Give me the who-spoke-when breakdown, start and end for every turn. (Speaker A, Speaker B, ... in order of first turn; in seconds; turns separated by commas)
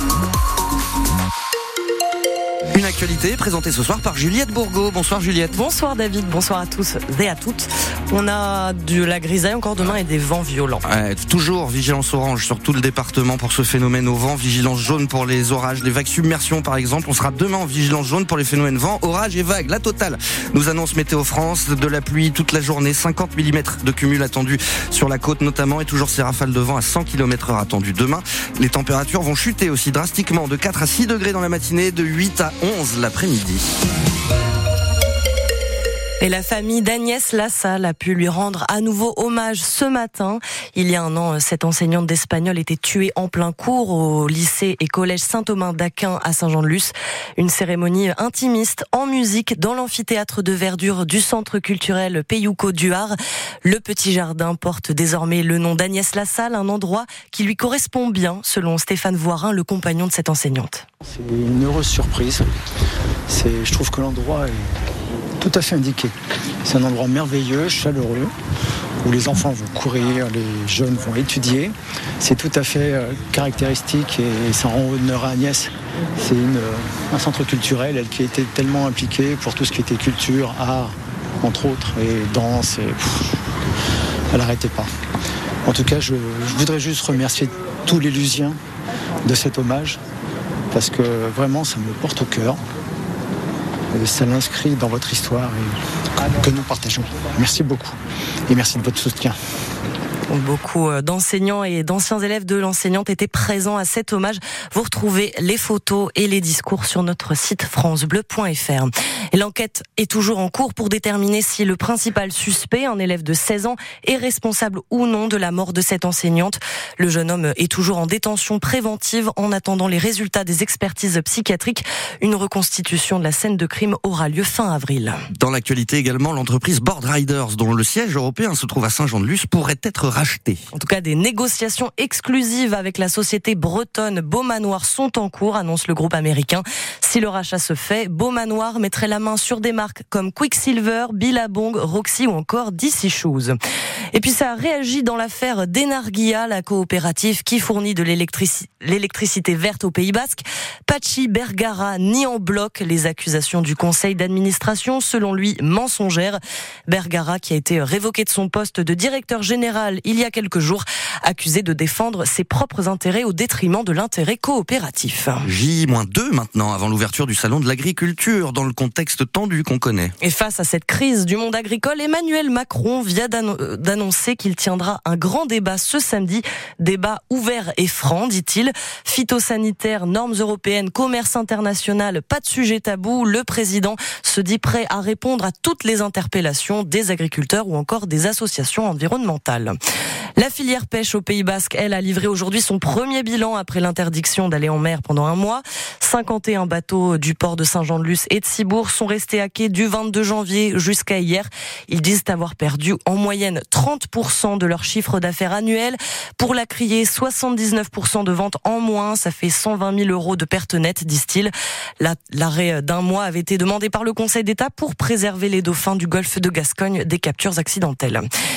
Speaker A: 2.7-5.6, Speaker B: 5.5-10.8, Speaker A: 10.8-33.7, Speaker B: 36.2-60.8, Speaker C: 61.1-62.5, Speaker C: 63.3-64.7, Speaker C: 65.4-68.3, Speaker C: 69.0-83.4, Speaker C: 84.3-84.9, Speaker C: 85.7-88.6, Speaker C: 89.2-90.0, Speaker C: 90.7-92.6, Speaker C: 93.9-95.8, Speaker C: 96.3-98.0, Speaker C: 98.5-99.4, Speaker B: 100.3-125.2, Speaker A: 125.3-130.6, Speaker B: 130.7-143.6, Speaker B: 144.1-165.4, Speaker A: 165.4-170.1, Speaker B: 170.2-189.7, Speaker B: 190.4-218.2